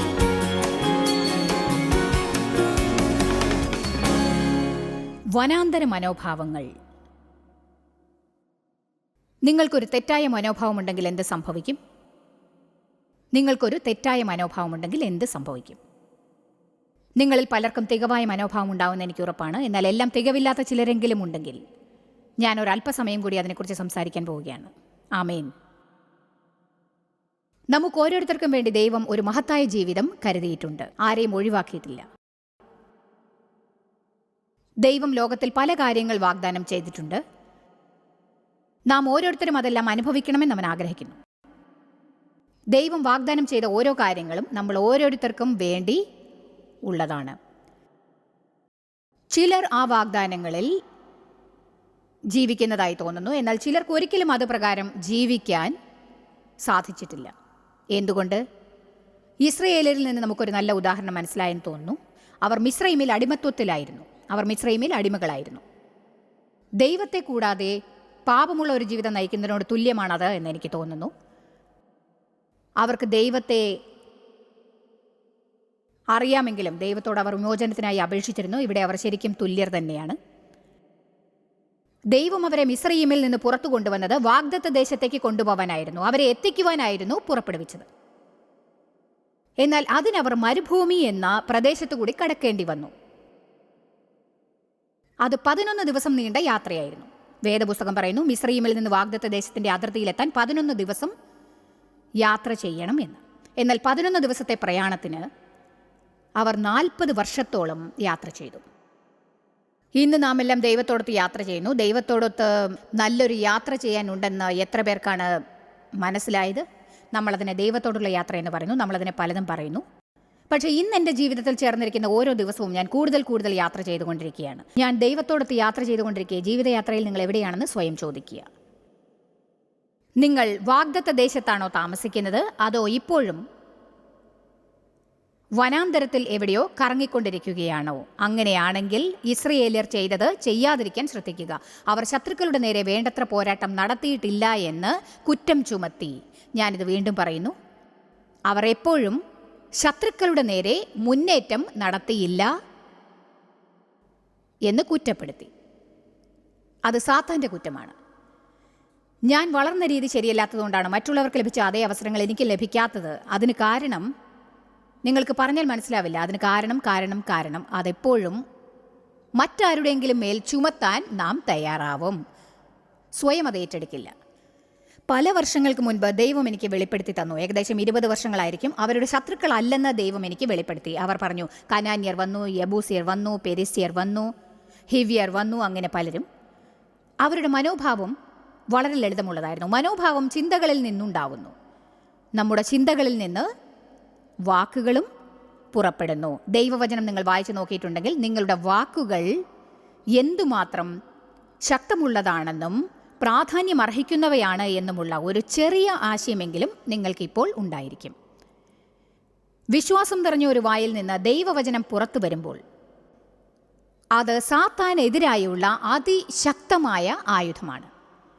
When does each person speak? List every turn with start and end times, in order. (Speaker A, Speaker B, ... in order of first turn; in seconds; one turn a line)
Speaker A: 5.3-6.7
Speaker A: 9.4-11.8
Speaker A: 13.3-15.8
Speaker A: 17.2-21.6
Speaker A: 22.4-25.5
Speaker A: 27.7-32.0
Speaker A: 34.8-37.2
Speaker A: 38.9-41.2
Speaker A: 42.7-46.0
Speaker A: 46.9-47.4
Speaker A: 49.3-50.8
Speaker A: 52.3-55.7
Speaker A: 56.6-57.3
Speaker A: 57.9-58.4
Speaker A: 59.4-65.6
Speaker A: 66.8-71.1
Speaker A: 72.8-73.8
Speaker A: 76.1-80.2
Speaker A: 82.1-87.9
Speaker A: 89.6-92.9
Speaker A: 95.2-101.1
Speaker A: 102.2-105.3
Speaker A: 106.4-108.7
Speaker A: 110.0-115.4
Speaker A: 116.0-119.8
Speaker A: 120.5-128.5
Speaker A: 130.2-133.4
Speaker A: 135.6-147.5
Speaker A: 148.5-149.2
Speaker A: 149.8-152.5
Speaker A: 154.7-155.5
Speaker A: 156.8-157.9
Speaker A: 159.3-164.1
Speaker A: 165.0-168.4
Speaker A: 169.4-172.2
Speaker A: 173.2-174.1
Speaker A: 175.1-184.3
Speaker A: 184.9-186.2
Speaker A: 187.2-188.1
Speaker A: 188.7-191.5
Speaker A: 192.3-193.5
Speaker A: 194.4-195.1
Speaker A: 195.7-199.4
Speaker A: 200.2-200.9
Speaker A: 201.7-208.1
Speaker A: 209.7-212.6
Speaker A: 214.2-217.9